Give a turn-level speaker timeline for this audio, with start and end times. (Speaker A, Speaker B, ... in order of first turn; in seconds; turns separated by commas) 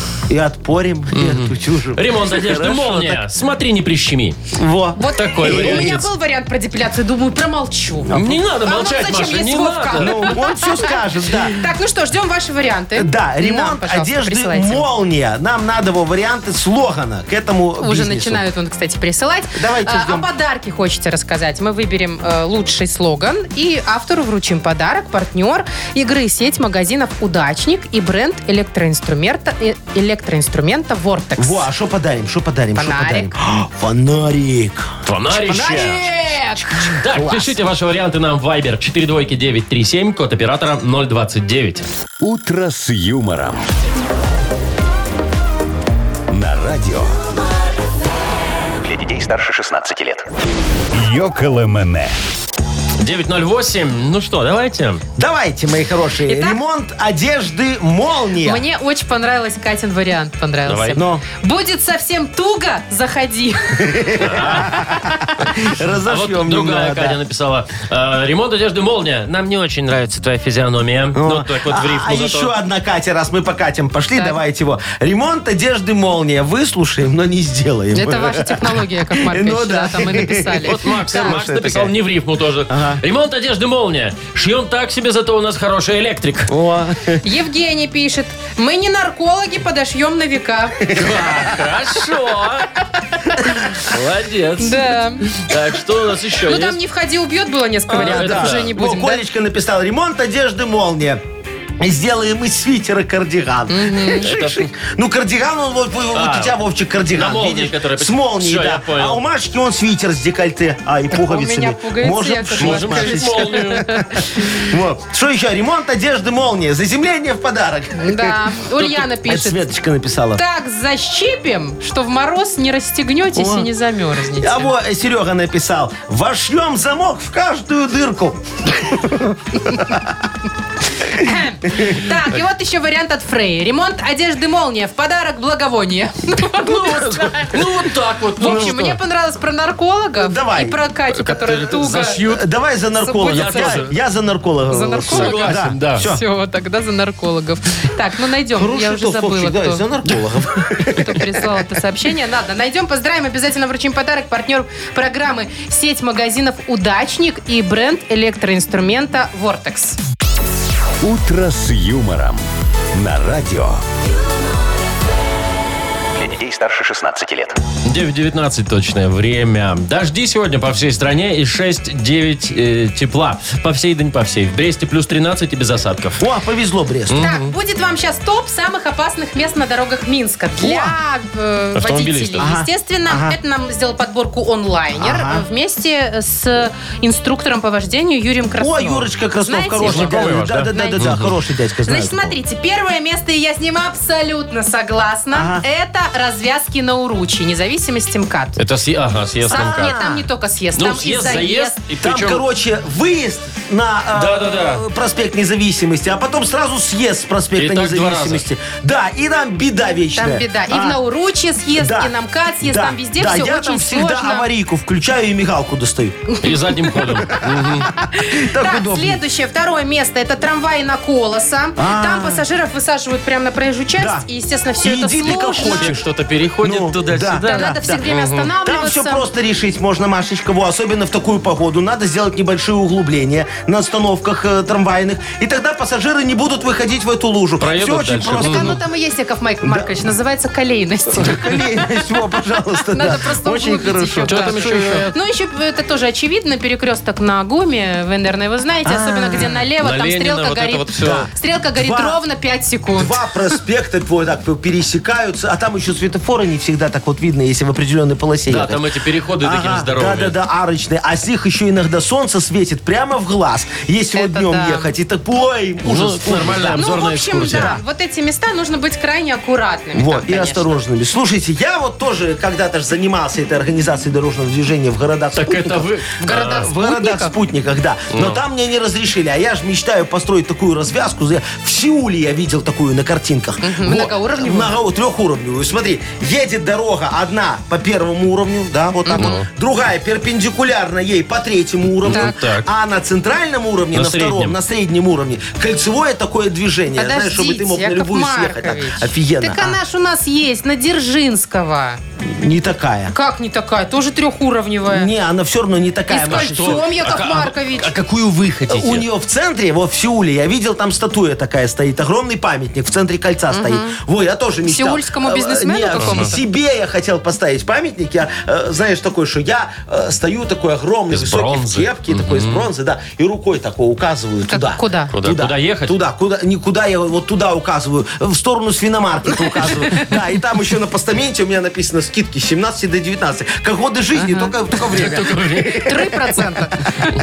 Speaker A: 0.3-3.2, Speaker B: 1.1-4.4, Speaker A: 4.5-6.0, Speaker C: 5.0-11.0, Speaker B: 5.1-6.1, Speaker A: 8.1-8.4, Speaker B: 8.1-10.4, Speaker A: 9.9-11.6, Speaker C: 11.5-14.8, Speaker A: 12.9-18.4, Speaker C: 17.8-31.6, Speaker A: 19.5-20.3, Speaker A: 31.4-34.9, Speaker C: 32.7-33.3, Speaker B: 35.0-36.1, Speaker C: 35.5-37.0, Speaker A: 35.6-36.0, Speaker B: 36.8-41.8, Speaker A: 37.1-37.5, Speaker D: 42.2-43.7, Speaker D: 46.3-47.2, Speaker E: 48.8-50.2, Speaker D: 50.9-52.1, Speaker B: 53.0-55.0, Speaker A: 55.1-58.6, Speaker C: 56.3-56.6, Speaker C: 58.4-64.2, Speaker B: 60.6-61.0, Speaker A: 60.9-61.2, Speaker A: 63.8-67.2, Speaker B: 64.2-64.8, Speaker B: 66.0-72.5, Speaker A: 71.2-81.9, Speaker C: 77.9-81.4, Speaker B: 80.6-86.5, Speaker A: 82.7-83.0, Speaker A: 86.5-87.2, Speaker C: 87.2-90.8, Speaker A: 90.8-91.6, Speaker B: 90.9-92.7, Speaker B: 93.8-96.8, Speaker C: 94.6-95.3, Speaker C: 96.5-99.2, Speaker B: 97.9-98.7, Speaker A: 97.9-101.2, Speaker A: 101.8-118.3, Speaker C: 103.7-104.3, Speaker B: 104.2-104.7, Speaker B: 106.1-106.5, Speaker B: 107.1-109.2, Speaker C: 111.1-114.2, Speaker B: 112.6-113.9, Speaker C: 118.0-119.6, Speaker A: 119.2-120.4, Speaker C: 120.3-124.7, Speaker A: 123.3-123.7, Speaker A: 124.4-130.2, Speaker C: 131.1-137.6, Speaker A: 131.7-132.0, Speaker A: 136.6-137.7, Speaker B: 137.4-139.0, Speaker C: 138.4-142.2, Speaker A: 138.4-138.9, Speaker A: 140.2-140.8, Speaker B: 141.1-142.4, Speaker A: 142.2-146.2, Speaker C: 143.0-143.9, Speaker B: 143.2-143.9, Speaker C: 144.7-149.8, Speaker B: 145.1-146.1, Speaker A: 148.5-151.6, Speaker C: 150.8-160.0, Speaker D: 161.0-163.8, Speaker E: 166.2-167.6, Speaker B: 167.8-176.2, Speaker A: 176.2-177.3, Speaker B: 177.1-177.5, Speaker C: 177.2-191.1, Speaker A: 180.6-180.9, Speaker B: 181.7-182.5, Speaker A: 182.4-183.4, Speaker A: 185.0-185.4, Speaker A: 188.6-192.3, Speaker B: 189.8-191.3, Speaker C: 191.8-198.6, Speaker A: 195.3-195.6, Speaker B: 198.6-199.9, Speaker A: 199.4-200.2, Speaker C: 199.4-201.8, Speaker B: 200.8-202.4, Speaker A: 202.0-211.0, Speaker B: 204.1-204.8, Speaker B: 207.6-208.4, Speaker C: 210.1-214.5, Speaker A: 211.8-216.2, Speaker C: 216.3-217.3, Speaker B: 216.4-217.9, Speaker A: 217.5-219.2, Speaker C: 218.0-225.9, Speaker A: 221.8-222.4, Speaker A: 223.9-224.2, Speaker A: 224.8-226.1, Speaker B: 225.2-228.5, Speaker A: 226.6-228.0, Speaker C: 227.4-229.2, Speaker A: 228.6-238.8, Speaker B: 237.6-238.7, Speaker C: 238.3-242.0, Speaker A: 241.1-245.1, Speaker C: 242.9-253.2, Speaker B: 244.2-245.1, Speaker A: 248.8-249.6, Speaker B: 249.8-251.3, Speaker A: 251.0-252.2, Speaker A: 252.9-258.8, Speaker B: 258.5-260.4, Speaker A: 259.4-266.9, Speaker C: 264.1-264.9, Speaker B: 265.8-267.8, Speaker C: 266.7-270.8, Speaker A: 267.5-267.8, Speaker A: 269.9-299.8, Speaker B: 275.3-276.7, Speaker C: 276.2-277.3, Speaker B: 278.1-278.4, Speaker C: 283.6-284.7, Speaker C: 289.0-289.4, Speaker B: 289.1-289.5, Speaker B: 292.0-292.7, Speaker C: 292.0-292.3, Speaker B: 293.9-294.6, Speaker C: 296.9-302.0, Speaker A: 302.2-303.1, Speaker C: 303.1-305.1, Speaker A: 304.9-306.9, Speaker C: 306.1-307.9, Speaker B: 306.1-309.1, Speaker A: 308.7-336.5, Speaker C: 313.5-314.0, Speaker C: 314.6-316.4, Speaker B: 315.9-316.3, Speaker B: 321.1-322.7, Speaker C: 324.5-325.1, Speaker B: 325.1-325.9, Speaker C: 334.1-334.5, Speaker B: 334.9-335.9, Speaker C: 335.8-337.0